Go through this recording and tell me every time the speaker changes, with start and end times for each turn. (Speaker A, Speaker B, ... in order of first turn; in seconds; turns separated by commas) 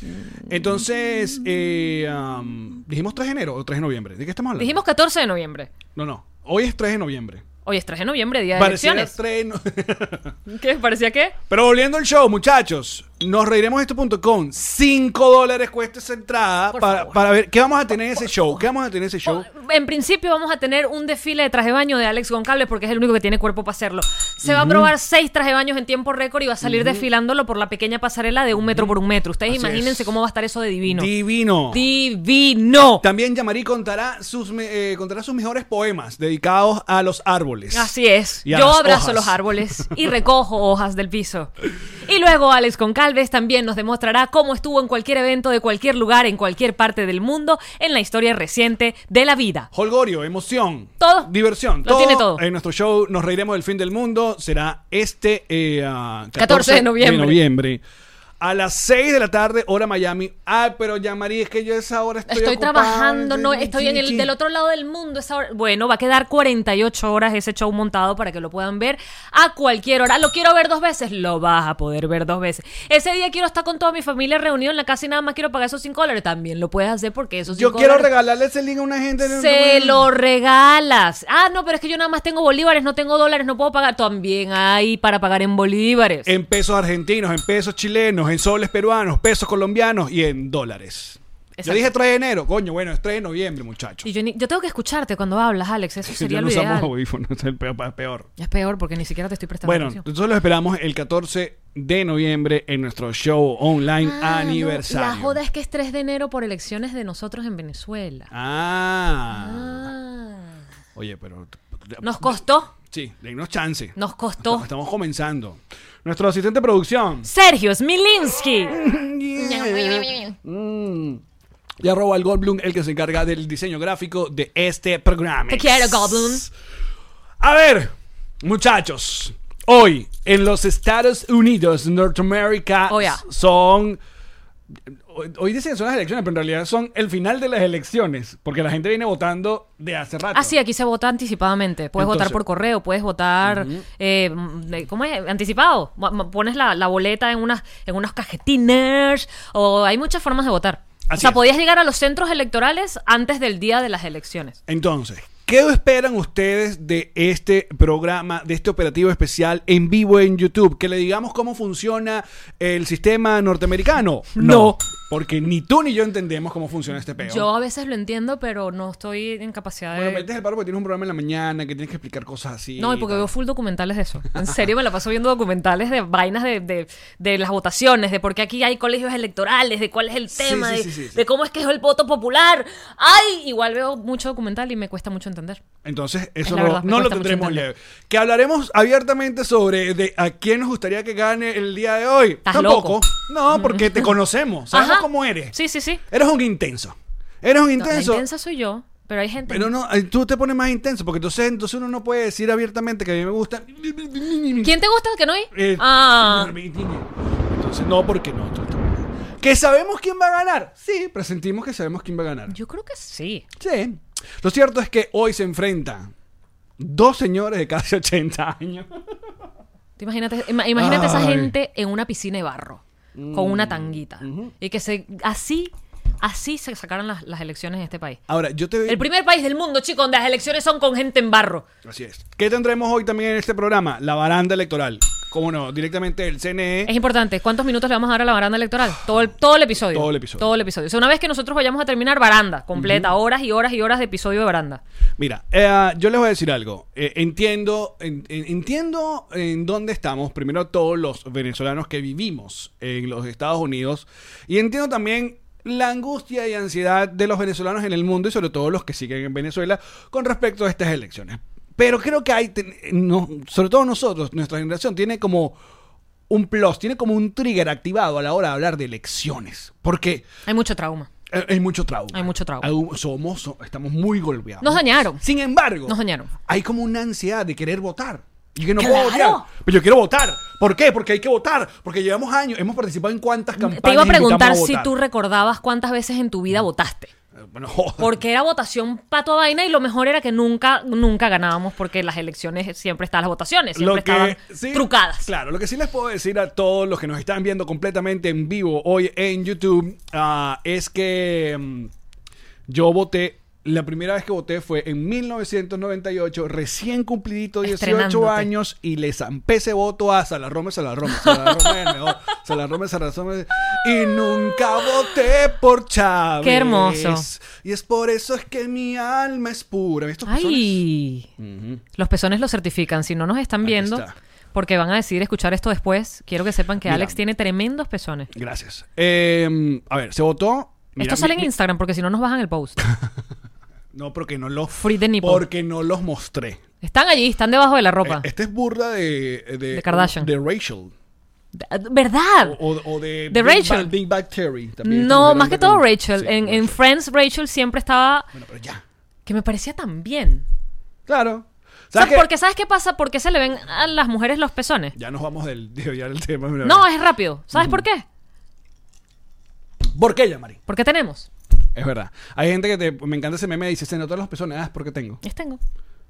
Speaker A: 0.4-4.8, Speaker B: 4.6-5.7, Speaker A: 6.0-7.4, Speaker B: 7.7-9.1, Speaker A: 8.6-10.4, Speaker B: 10.5-11.4, Speaker A: 11.5-19.5, Speaker B: 16.7-17.2, Speaker B: 19.2-31.1, Speaker A: 24.4-24.9, Speaker A: 26.6-27.1, Speaker A: 28.6-28.9, Speaker A: 29.5-30.1, Speaker A: 30.9-31.8, Speaker B: 31.7-33.0, Speaker A: 33.0-37.9, Speaker B: 37.7-41.5, Speaker A: 38.4-40.1, Speaker B: 42.0-49.7, Speaker A: 49.7-57.8, Speaker B: 51.0-51.3, Speaker B: 51.8-52.4, Speaker B: 56.4-57.4, Speaker A: 58.4-64.3, Speaker B: 62.3-78.1, Speaker A: 77.5-80.1, Speaker B: 79.2-86.3, Speaker A: 86.2-94.1, Speaker B: 91.5-91.8, Speaker B: 94.0-96.9, Speaker A: 96.0-98.3, Speaker B: 98.4-100.0, Speaker A: 99.6-105.4, Speaker B: 104.0-108.3, Speaker A: 108.3-109.9, Speaker B: 109.3-110.5, Speaker A: 110.9-117.3, Speaker B: 112.0-112.7, Speaker B: 114.0-114.7, Speaker B: 117.2-118.8, Speaker A: 118.7-121.2, Speaker B: 119.3-120.4, Speaker A: 121.8-126.5, Speaker B: 125.5-126.5, Speaker A: 127.4-134.0, Speaker B: 132.9-133.2, Speaker A: 134.9-140.5, Speaker B: 140.3-154.6, Speaker A: 142.0-142.4, Speaker A: 143.4-143.8, Speaker A: 151.1-151.4, Speaker A: 154.7-167.5, Speaker B: 164.3-164.8, Speaker B: 167.2-170.3, Speaker A: 169.9-173.3, Speaker B: 172.8-185.6, Speaker A: 174.3-174.6, Speaker A: 180.3-181.2, Speaker A: 185.8-195.5, Speaker B: 186.4-187.7, Speaker B: 192.5-194.1, Speaker B: 194.7-196.0, Speaker A: 196.1-198.2, Speaker B: 197.8-199.7, Speaker A: 199.5-204.7, Speaker B: 204.6-206.5, Speaker A: 205.5-212.5, Speaker B: 212.5-213.4, Speaker A: 213.6-216.1, Speaker A: 216.8-219.2, Speaker B: 220.0-228.2, Speaker A: 220.7-221.5, Speaker A: 223.2-224.5, Speaker A: 228.3-229.0, Speaker B: 228.9-231.7, Speaker A: 231.8-236.9, Speaker B: 236.9-244.8, Speaker A: 239.8-240.5, Speaker A: 242.7-243.1, Speaker A: 245.2-265.6, Speaker A: 266.3-270.3, Speaker B: 270.5-271.1, Speaker A: 271.3-275.9, Speaker B: 272.1-272.7, Speaker B: 274.6-275.2, Speaker B: 275.9-276.3, Speaker A: 276.5-284.9, Speaker B: 278.8-279.4, Speaker B: 283.6-287.1, Speaker A: 287.4-288.2, Speaker B: 288.0-295.3, Speaker A: 293.7-301.9, Speaker A: 302.7-320.8, Speaker B: 307.6-308.5, Speaker B: 311.1-311.9, Speaker B: 316.4-317.2, Speaker B: 320.2-321.3, Speaker A: 321.4-321.8, Speaker B: 322.0-328.3, Speaker A: 323.6-324.1, Speaker A: 326.8-327.2, Speaker A: 328.3-331.5, Speaker B: 331.0-332.9, Speaker A: 333.9-336.6, Speaker B: 334.7-335.4, Speaker B: 336.8-338.2, Speaker A: 338.0-340.9, Speaker B: 339.7-340.3, Speaker B: 341.5-342.6, Speaker A: 342.4-346.8, Speaker B: 343.3-343.9, Speaker B: 344.8-348.3, Speaker A: 348.3-348.8, Speaker B: 349.2-350.4, Speaker A: 351.1-352.3, Speaker B: 351.9-354.9, Speaker A: 354.9-356.9, Speaker B: 356.6-358.0, Speaker A: 357.5-357.8, Speaker A: 359.9-360.6, Speaker B: 360.7-361.3, Speaker A: 361.7-365.2, Speaker B: 365.2-365.6